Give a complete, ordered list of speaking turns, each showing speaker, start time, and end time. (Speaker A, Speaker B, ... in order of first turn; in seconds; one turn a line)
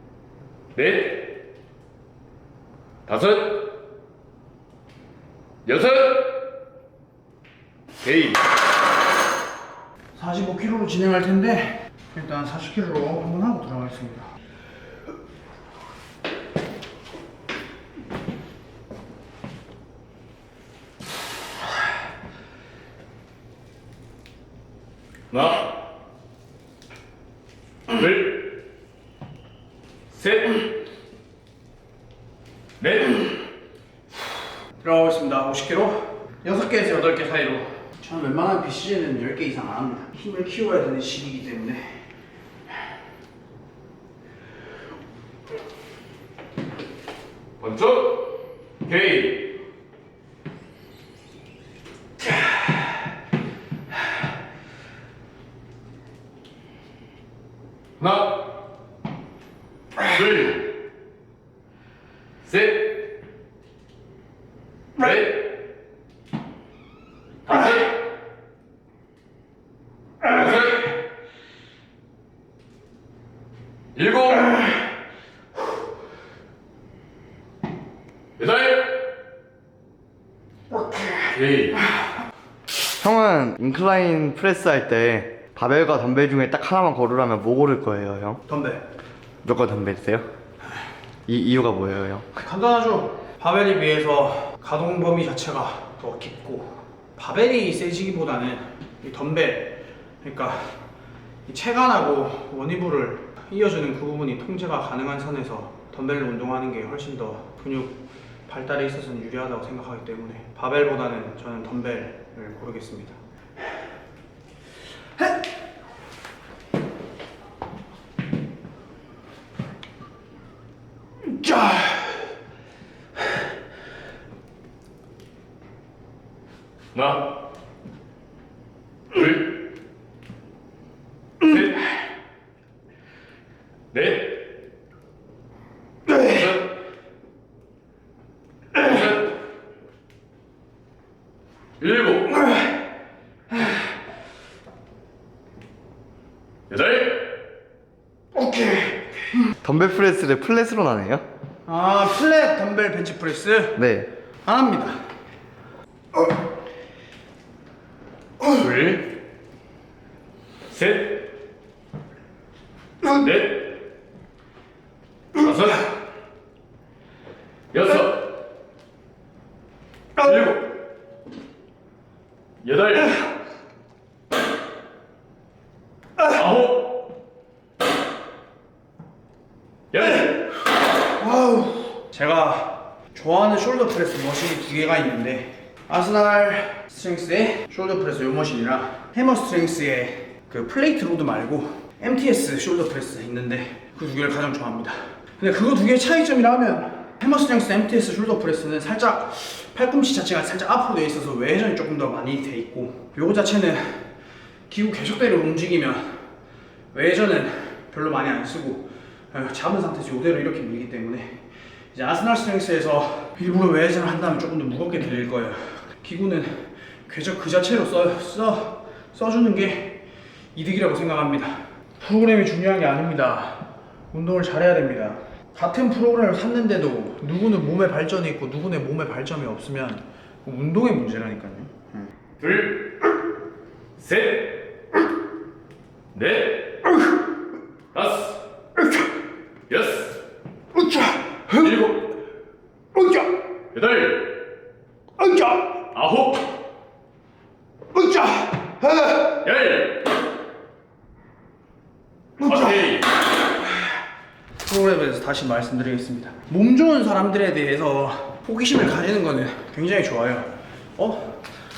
Speaker A: 0.7-1.4
Speaker A: 3.0-3.7
Speaker A: 5.7-6.5
Speaker A: 8.0-8.4
Speaker B: 10.1-14.3
Speaker A: 25.3-25.8
Speaker A: 27.9-28.5
Speaker A: 30.1-30.6
Speaker A: 32.8-33.3
Speaker B: 34.8-41.9
Speaker A: 47.6-49.5
Speaker A: 58.0-58.6
Speaker A: 60.0-60.7
Speaker A: 62.4-63.1
Speaker A: 65.0-65.5
Speaker A: 67.5-68.0
Speaker A: 70.3-70.9
Speaker A: 73.9-74.7
Speaker A: 78.4-79.0
Speaker A: 81.2-81.9
Speaker C: 83.0-88.4
Speaker B: 88.5-88.8
Speaker C: 89.4-90.3
Speaker C: 91.3-92.2
Speaker B: 92.3-100.8
Speaker B: 101.5-108.0
Speaker B: 108.5-113.2
Speaker B: 121.4-122.0
Speaker A: 126.9-127.3
Speaker A: 129.1-129.5
Speaker A: 131.4-131.9
Speaker A: 133.9-134.5
Speaker A: 136.1-136.7
Speaker A: 138.8-139.3
Speaker A: 141.8-142.5
Speaker A: 146.7-147.3
Speaker B: 148.3-149.1
Speaker C: 149.6-151.2
Speaker B: 151.7-153.8
Speaker C: 153.8-154.1
Speaker B: 154.4-155.0
Speaker A: 158.5-159.1
Speaker A: 160.7-161.3
Speaker A: 163.1-163.8
Speaker A: 165.3-165.9
Speaker A: 167.7-168.3
Speaker A: 170.2-170.7
Speaker A: 172.6-173.2
Speaker A: 176.2-177.1
Speaker A: 179.9-180.4
Speaker B: 181.2-204.1
Speaker B: 204.7-206.1
Speaker B: 206.9-211.3
Speaker B: 211.9-220.0
Speaker B: 220.5-232.1
Speaker A: 232.4-233.1
Speaker A: 234.0-234.7
Speaker A: 236.1-237.0
Speaker A: 237.9-238.4
Speaker A: 239.7-240.2
Speaker A: 241.5-242.1
Speaker A: 243.7-244.4
Speaker B: 245.2-245.6
Speaker A: 245.9-246.5
Speaker B: 247.9-248.7
Speaker A: 249.4-250.1
Speaker A: 252.4-253.1
Speaker B: 254.6-261.4